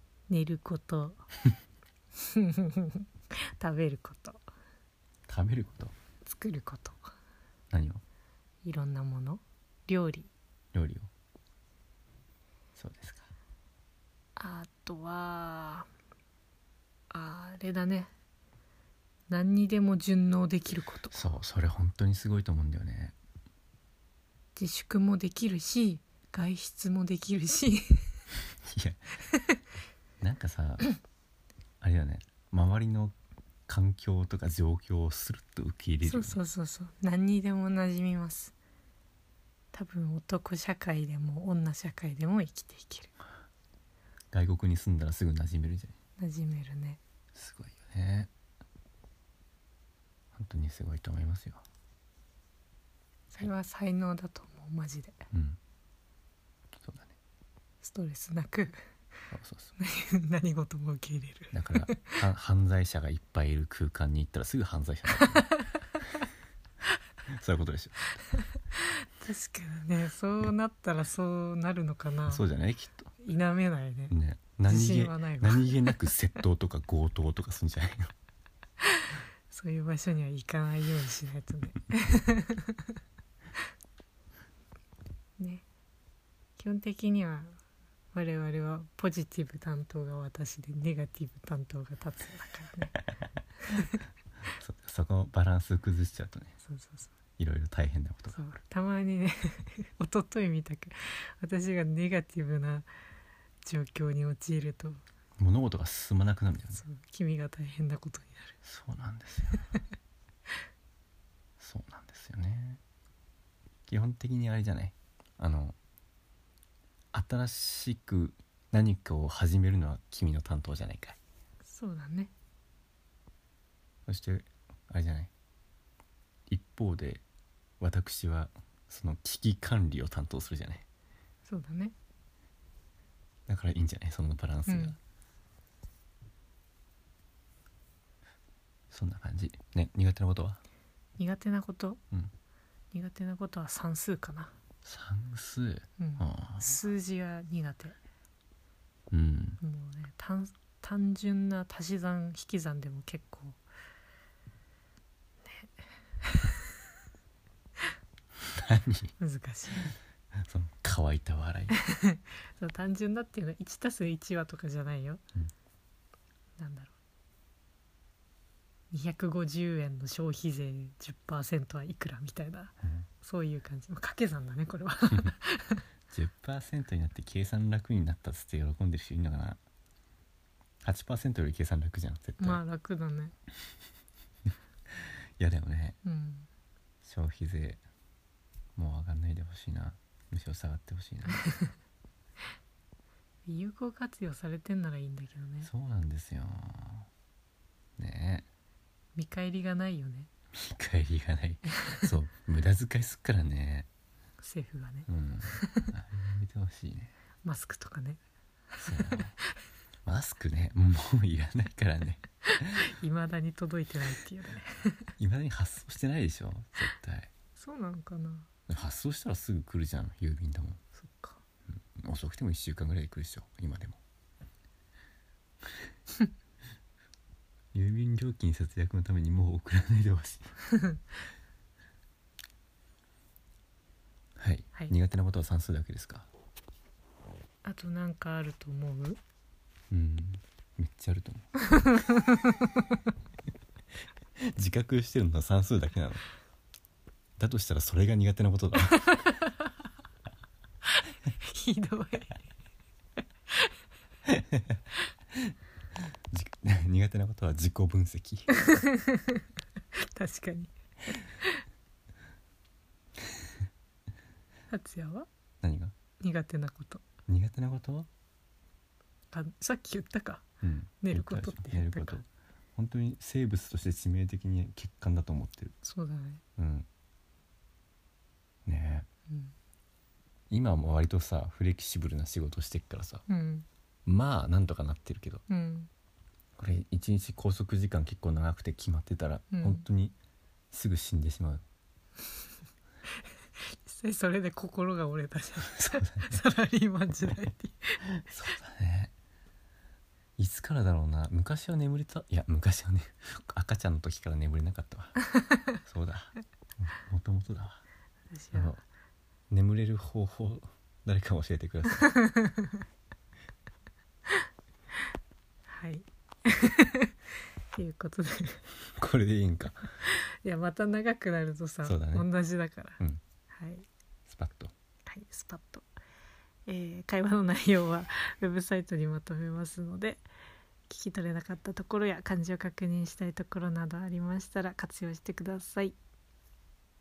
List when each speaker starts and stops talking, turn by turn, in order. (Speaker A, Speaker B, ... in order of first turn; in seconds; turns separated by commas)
Speaker A: 0.3-1.2, Speaker A: 2.2-4.4, Speaker B: 5.3-5.9, Speaker A: 6.2-7.1, Speaker B: 7.7-8.0, Speaker A: 8.6-10.3, Speaker B: 10.7-11.1, Speaker B: 12.8-13.3, Speaker A: 14.3-15.9, Speaker A: 17.1-18.1, Speaker A: 19.3-21.3, Speaker B: 21.1-23.1, Speaker A: 24.6-28.2, Speaker B: 28.6-29.0, Speaker B: 30.2-30.9, Speaker B: 31.8-33.1, Speaker B: 33.7-36.4, Speaker A: 36.0-38.5, Speaker A: 39.7-43.1, Speaker B: 44.3-45.9, Speaker A: 46.2-47.0, Speaker B: 47.3-48.3, Speaker B: 50.3-51.6, Speaker A: 53.3-55.2, Speaker B: 55.3-55.6, Speaker B: 56.8-57.1, Speaker A: 57.8-58.8, Speaker B: 59.3-59.7, Speaker A: 59.8-62.2, Speaker B: 61.5-65.5, Speaker A: 65.3-65.8, Speaker B: 67.3-68.2, Speaker A: 68.6-72.4, Speaker B: 72.3-73.1, Speaker A: 73.2-74.1, Speaker B: 74.1-78.1, Speaker A: 74.7-75.9, Speaker A: 78.8-82.9, Speaker A: 85.4-85.6, Speaker A: 86.6-87.6, Speaker A: 88.1-93.0, Speaker A: 93.6-94.0, Speaker B: 94.6-96.5, Speaker A: 96.7-97.1, Speaker B: 97.4-98.4, Speaker A: 98.3-102.9, Speaker A: 103.6-105.0, Speaker B: 105.4-106.8, Speaker A: 106.7-108.5, Speaker B: 108.6-109.6, Speaker B: 111.6-112.8, Speaker B: 113.9-115.8, Speaker B: 117.1-121.2, Speaker A: 121.6-122.3, Speaker B: 124.1-125.3, Speaker B: 126.5-127.2, Speaker B: 127.8-130.8, Speaker A: 131.4-131.9, Speaker B: 133.5-135.0, Speaker A: 134.7-134.9, Speaker B: 138.9-140.6, Speaker A: 141.2-142.0, Speaker A: 142.9-144.5, Speaker B: 144.8-146.8, Speaker A: 146.0-148.0, Speaker B: 149.1-149.6, Speaker A: 149.6-153.6, Speaker A: 155.4-156.7, Speaker B: 158.5-159.1, Speaker A: 159.2-159.9, Speaker B: 160.4-161.8, Speaker A: 161.7-165.2, Speaker A: 166.6-166.9, Speaker A: 168.9-175.8, Speaker B: 176.1-179.6, Speaker B: 180.8-182.6, Speaker A: 182.4-183.3, Speaker B: 185.4-186.0, Speaker A: 186.0-186.5, Speaker B: 187.0-187.8, Speaker B: 188.8-191.4, Speaker A: 193.4-195.7, Speaker B: 195.6-197.1, Speaker B: 198.0-198.4, Speaker A: 199.2-200.3, Speaker B: 200.5-203.9, Speaker A: 201.7-202.1, Speaker A: 204.4-205.9, Speaker B: 205.1-207.1, Speaker A: 207.4-208.2, Speaker A: 208.7-209.2, Speaker B: 208.8-209.3, Speaker B: 210.0-212.8, Speaker A: 212.4-215.1, Speaker B: 215.2-217.3, Speaker A: 217.6-218.5, Speaker B: 218.7-220.8, Speaker A: 221.0-221.4, Speaker B: 221.7-224.0, Speaker B: 227.7-230.5, Speaker B: 234.4-236.3, Speaker A: 237.6-239.2, Speaker B: 239.9-241.5, Speaker A: 241.7-242.7, Speaker B: 244.4-246.2, Speaker B: 247.4-249.1, Speaker A: 248.9-249.7, Speaker A: 250.9-252.4, Speaker A: 253.5-253.7, Speaker B: 254.3-254.6, Speaker B: 256.3-258.7, Speaker A: 258.5-259.4, Speaker A: 259.9-261.6, Speaker A: 264.7-265.3, Speaker B: 265.6-265.9, Speaker A: 266.2-267.0, Speaker B: 267.3-268.1, Speaker A: 269.3-270.4, Speaker B: 270.6-275.7, Speaker A: 271.0-272.2, Speaker A: 275.8-276.4, Speaker B: 276.6-276.9, Speaker B: 278.6-279.1, Speaker A: 279.3-279.5, Speaker B: 280.5-283.2, Speaker A: 283.3-283.6, Speaker B: 284.1-285.4, Speaker A: 285.5-285.9, Speaker B: 286.6-290.1, Speaker A: 289.5-289.8, Speaker B: 290.7-291.6, Speaker A: 293.6-298.1, Speaker B: 295.6-296.4, Speaker B: 298.2-299.1, Speaker B: 300.4-305.2, Speaker B: 305.8-307.8, Speaker A: 308.3-308.8, Speaker B: 308.5-308.8, Speaker B: 309.5-312.1, Speaker A: 312.1-312.8, Speaker A: 315.7-317.1, Speaker A: 317.7-318.6, Speaker B: 319.0-319.9, Speaker A: 320.0-323.0, Speaker B: 321.8-322.3, Speaker A: 323.5-323.9, Speaker B: 324.3-324.7, Speaker A: 325.1-325.9, Speaker A: 326.7-330.3, Speaker A: 330.9-335.9